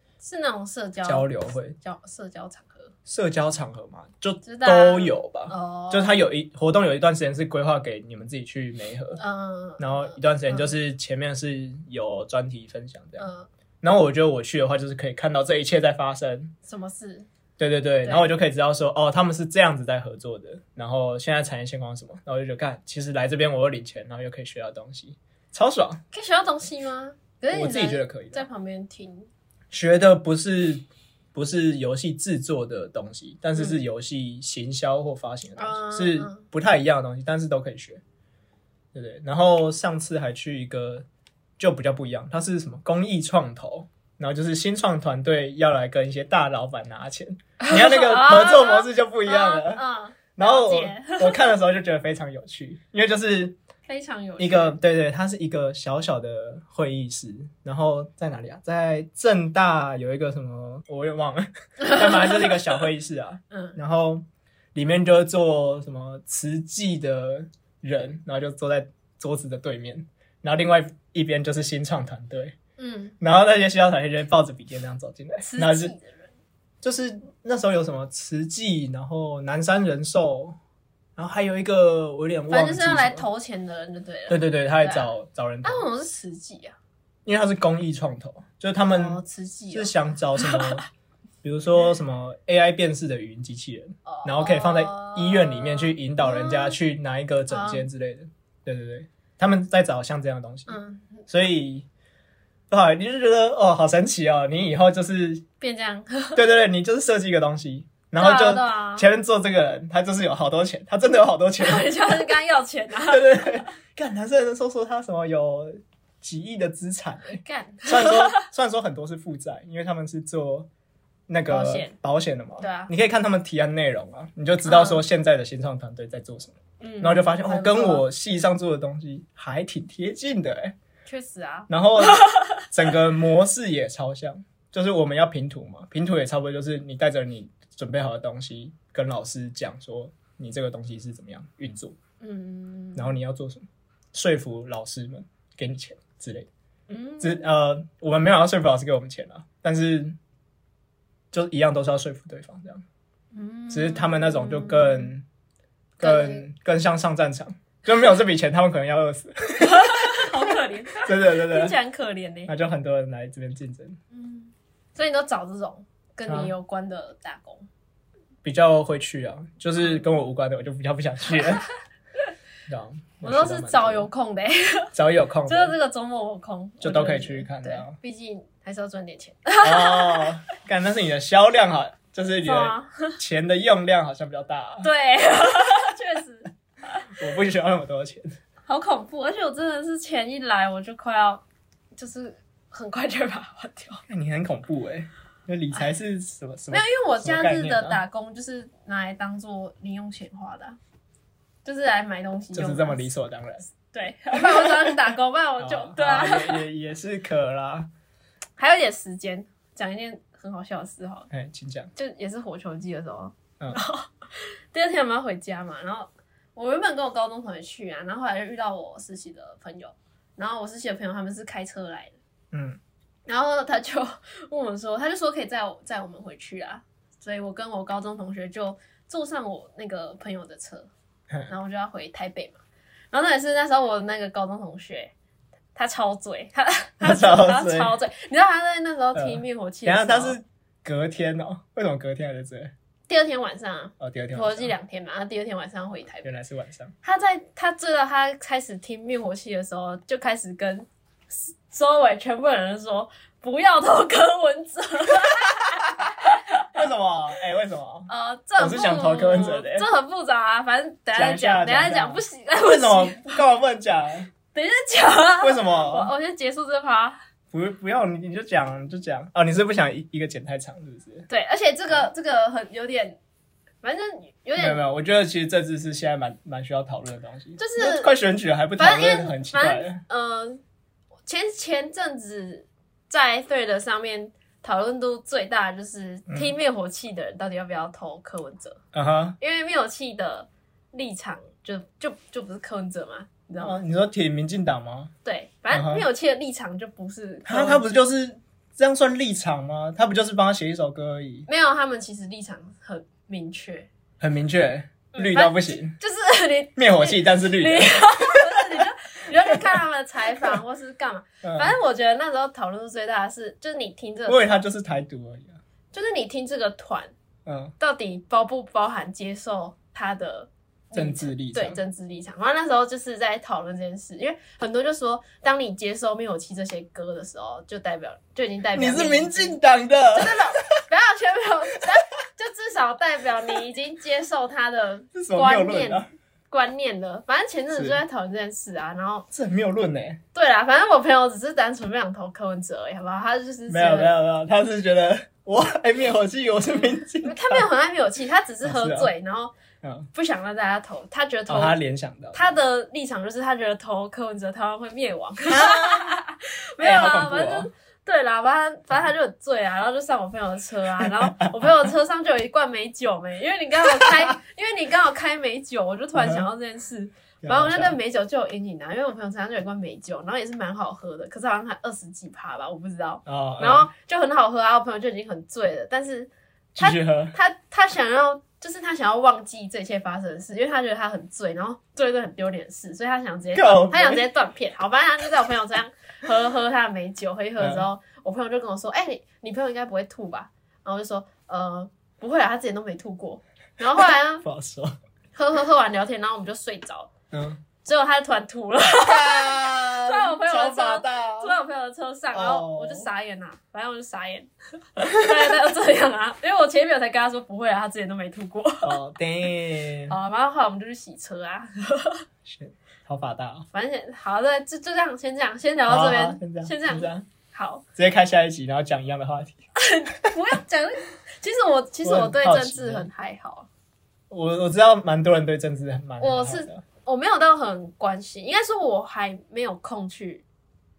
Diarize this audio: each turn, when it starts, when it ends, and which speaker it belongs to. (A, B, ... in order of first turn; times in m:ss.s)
0:00.2-0:02.9 A
0:01.0-0:01.8 B
0:03.1-0:09.2 B
0:04.4-0:06.2 A
0:09.2-0:10.7 A
0:09.8-0:13.3 B
0:13.2-0:13.5 A
0:13.8-0:16.6 B
0:16.7-0:17.3 A
0:17.6-0:26.0 B
0:26.1-0:29.3 A
0:27.5-0:28.5 B
0:29.7-0:38.0 B
0:35.6-0:36.4 A
0:38.9-0:41.1 B
0:41.6-0:49.8 B
0:47.6-0:51.5 A
0:50.4-0:53.6 B
0:53.9-0:54.8 A
0:54.4-1:12.6 B
1:01.8-1:02.6 A
1:03.5-1:03.8 A
1:12.8-1:13.2 A
1:13.2-1:16.0 B
1:15.4-1:16.3 A
1:16.8-1:20.6 B
1:21.2-1:23.2 B
1:22.5-1:25.1 A
1:24.3-1:25.8 B
1:25.6-1:26.8 A
1:27.3-1:30.8 B
1:28.9-1:30.8 A
1:31.4-1:40.8 B
1:34.1-1:36.8 A
1:37.5-1:37.9 A
1:40.7-1:41.2 A
1:41.3-1:41.9 B
1:42.7-1:45.4 B
1:45.6-1:46.4 A
1:46.4-1:52.3 B
1:48.2-1:49.1 A
1:51.6-1:53.7 A
1:53.0-2:00.7 B
1:57.3-1:58.5 A
2:01.3-2:10.8 B
2:01.5-2:02.0 A
2:02.6-2:02.9 A
2:04.6-2:05.0 A
2:06.8-2:08.0 A
2:11.1-2:12.6 A
2:11.7-2:22.0 B
2:22.2-2:23.2 A
2:23.0-2:26.5 B
2:26.9-2:27.5 A
2:27.2-2:30.2 B
2:31.3-2:32.8 B
2:33.3-2:35.1 A
2:33.7-2:35.3 B
2:36.0-2:41.8 B
2:36.0-2:36.5 A
2:39.6-2:42.5 A
2:42.5-2:44.0 B
2:44.1-2:47.7 A
2:46.3-2:46.5 B
2:48.4-2:51.6 B
2:52.7-2:54.1 B
2:53.2-2:54.9 A
2:54.9-2:55.8 B
2:55.5-3:00.3 A
2:56.8-2:58.0 B
2:59.6-3:04.9 B
3:02.4-3:03.2 A
3:04.8-3:07.1 A
3:07.1-3:08.4 B
3:08.7-3:11.4 A
3:12.0-3:14.0 A
3:14.1-3:18.0 B
3:16.7-3:20.8 A
3:21.6-3:23.1 A
3:22.5-3:23.7 B
3:23.9-3:26.6 A
3:24.3-3:27.9 B
3:28.6-3:31.3 A
3:31.3-3:31.9 B
3:32.0-3:42.2 A
3:42.5-3:42.8 B
3:43.3-3:50.9 A
3:51.5-3:52.6 A
3:53.1-3:55.1 A
3:55.8-4:00.4 A
3:57.0-3:57.9 B
3:59.2-4:02.7 B
4:03.1-4:06.3 A
4:04.0-4:04.7 B
4:06.2-4:07.0 B
4:07.0-4:16.7 A
4:16.7-4:19.9 B
4:18.1-4:23.4 A
4:21.1-4:24.3 B
4:24.5-4:27.2 A
4:25.4-4:26.1 B
4:27.5-4:31.3 B
4:31.3-4:33.2 A
4:33.8-4:34.8 A
4:34.6-4:40.0 B
4:37.6-4:38.1 A
4:38.8-4:40.6 A
4:41.3-4:48.8 A
4:46.3-4:46.5 B
4:48.9-4:49.4 B
4:49.4-4:53.8 A
4:53.6-4:55.1 B
4:55.2-4:57.8 A
4:55.7-4:56.1 B
4:57.5-5:01.5 B
5:01.5-5:03.9 A
5:04.2-5:06.0 B
5:05.1-5:14.5 A
5:06.8-5:09.8 B
5:11.4-5:11.8 B
5:14.3-5:15.6 B
5:15.9-5:17.1 A
5:17.5-5:17.7 B
5:17.8-5:29.6 A
5:20.9-5:21.8 B
5:28.7-5:30.8 B
5:30.1-5:39.3 A
5:35.1-5:36.1 B
5:37.7-5:38.0 B
5:39.3-5:40.2 B
5:40.3-5:44.2 A
5:43.7-5:47.6 B
5:46.8-5:49.5 A
5:48.6-5:49.1 B
5:49.8-5:50.1 B
5:50.1-5:51.8 A
5:51.5-5:52.4 B
5:52.3-6:34.4 A
5:55.5-5:56.2 B
5:56.8-5:57.7 B
6:01.0-6:01.8 B
6:03.9-6:04.3 B
6:06.2-6:06.5 B
6:07.4-6:08.0 B
6:13.3-6:13.9 B
6:16.8-6:17.4 B
6:23.5-6:24.3 B
6:27.6-6:27.9 B
6:34.4-6:35.0 B
6:35.4-6:37.1 A
6:37.3-6:37.6 B
6:37.8-6:49.0 A
6:38.9-6:41.6 B
6:42.3-6:43.1 B
6:45.0-6:45.5 B
6:48.8-6:50.2 B
6:50.1-6:52.2 A
6:52.4-6:53.7 B
6:53.7-6:57.8 A
6:55.9-6:57.3 B
6:58.0-6:59.6 B
6:59.8-7:03.7 A
7:02.0-7:03.1 B
7:04.3-7:06.8 B
7:06.2-7:10.4 A